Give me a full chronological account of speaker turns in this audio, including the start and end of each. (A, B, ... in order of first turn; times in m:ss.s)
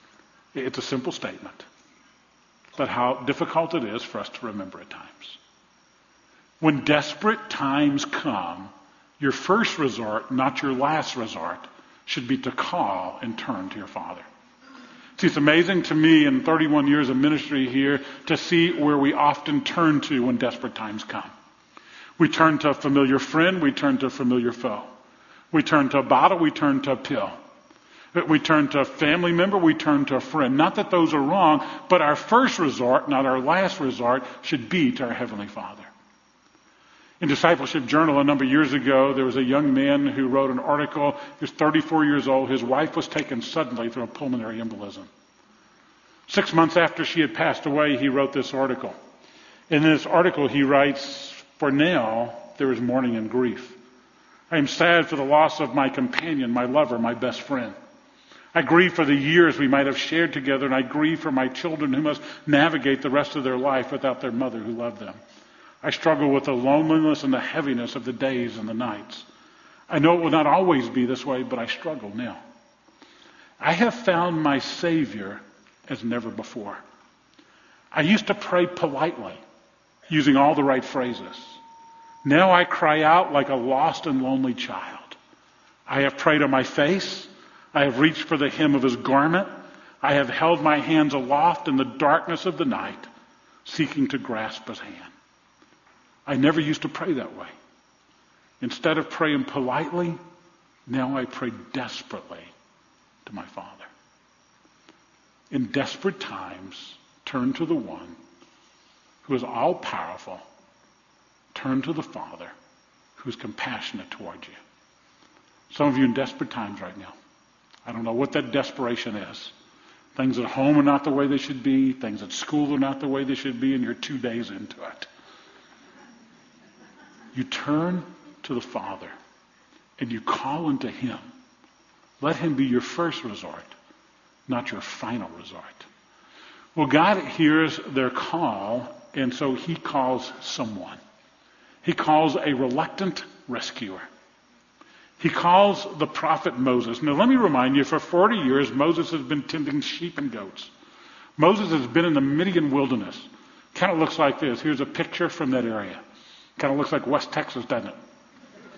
0:00.5-0:01.6 A
0:02.8-0:05.4 A
0:06.6-0:14.2 A
0:15.2-0:21.3 A
0:22.2-0:24.9 A
0:25.5-0:27.3 A
0:28.1-0:35.9 A
0:37.2-0:45.1 A
0:46.3-0:49.0 A
0:49.7-0:53.8 A
0:54.5-0:57.7 A
0:58.5-1:05.2 A
1:05.8-1:09.3 A
1:09.9-1:12.4 A
1:13.6-1:16.8 A
1:17.9-1:19.4 A
1:20.1-1:21.6 A
1:22.2-1:25.2 A
1:25.9-1:29.5 A
1:30.0-1:33.1 A
1:33.6-1:35.1 A
1:36.2-1:37.5 A
1:38.6-1:40.2 A
1:40.9-1:42.5 A
1:43.2-1:43.9 A
1:45.5-1:48.2 A
1:49.2-1:50.4 A
1:51.5-1:52.5 A
1:53.2-1:54.6 A
1:55.7-1:57.1 A
1:57.8-1:59.5 A
2:00.1-2:05.1 A
2:07.3-2:09.1 A
2:10.0-2:11.2 A
2:12.2-2:13.7 A
2:14.5-2:15.9 A
2:16.7-2:21.0 A
2:21.8-2:24.1 A
2:25.2-2:30.7 A
2:31.4-2:36.0 A
2:36.6-2:38.0 A